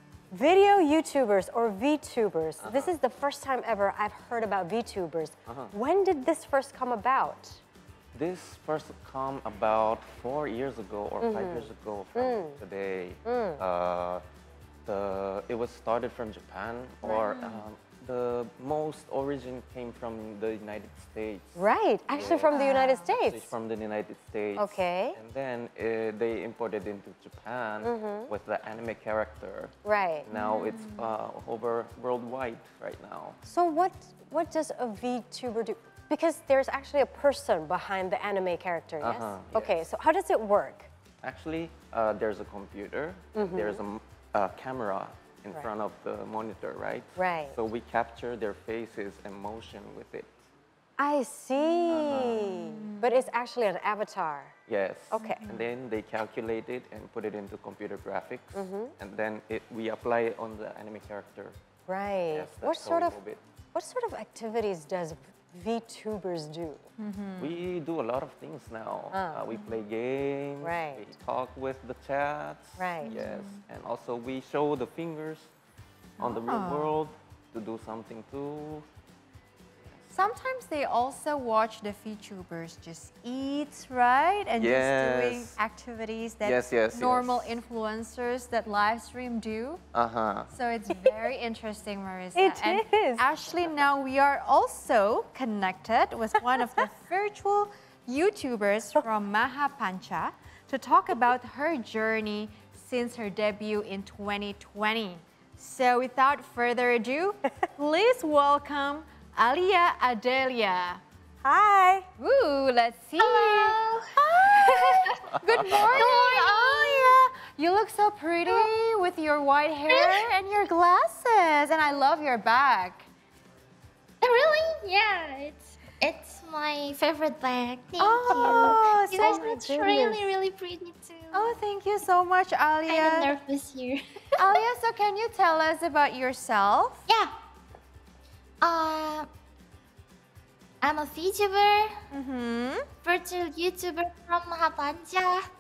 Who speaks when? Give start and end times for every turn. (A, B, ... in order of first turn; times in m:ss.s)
0:00.3-0:07.6 A
0:02.6-0:02.9 B
0:05.5-0:05.7 B
0:08.1-0:14.2 B
0:11.2-0:12.6 A
0:13.2-0:13.6 A
0:14.9-0:29.7 B
0:17.0-0:17.6 C
0:21.6-0:23.5 A
0:22.5-0:23.1 C
0:24.6-0:25.2 A
0:27.8-0:28.3 A
0:29.8-0:30.3 A
0:30.3-0:33.4 B
0:30.3-0:31.1 C
0:33.4-0:40.9 A
0:39.0-0:39.9 B
0:41.2-0:50.4 B
0:43.4-0:43.8 A
0:47.2-0:47.6 A
0:51.0-0:54.6 A
0:51.6-0:53.3 C
0:51.9-0:52.5 B
0:54.7-1:01.6 B
0:55.1-0:55.4 A
0:55.2-0:55.7 C
0:58.5-0:58.9 A
1:01.9-1:03.2 A
1:02.3-1:03.4 B
1:03.7-1:06.8 A
1:07.0-1:07.6 C
1:07.4-1:15.5 B
1:09.1-1:09.4 A
1:10.6-1:11.0 A
1:12.8-1:13.1 A
1:13.0-1:13.6 C
1:16.2-1:17.0 C
1:16.2-1:18.9 B
1:20.1-1:29.8 C
1:24.6-1:25.6 B
1:26.4-1:27.6 B
1:29.9-1:30.5 B
1:30.5-1:51.0 C
1:32.4-1:33.2 A
1:51.4-1:52.1 A
1:52.2-2:03.1 C
1:53.2-1:57.2 D
1:59.9-2:00.3 D
2:04.2-2:11.6 D
2:08.0-2:09.5 C
2:08.4-2:10.3 A
2:11.3-2:13.4 C
2:12.9-2:14.6 D
2:14.4-2:17.1 C
2:17.1-2:17.3 D
2:18.6-2:19.3 D
2:20.8-2:22.0 D
2:22.1-2:22.9 C
2:23.0-2:25.4 D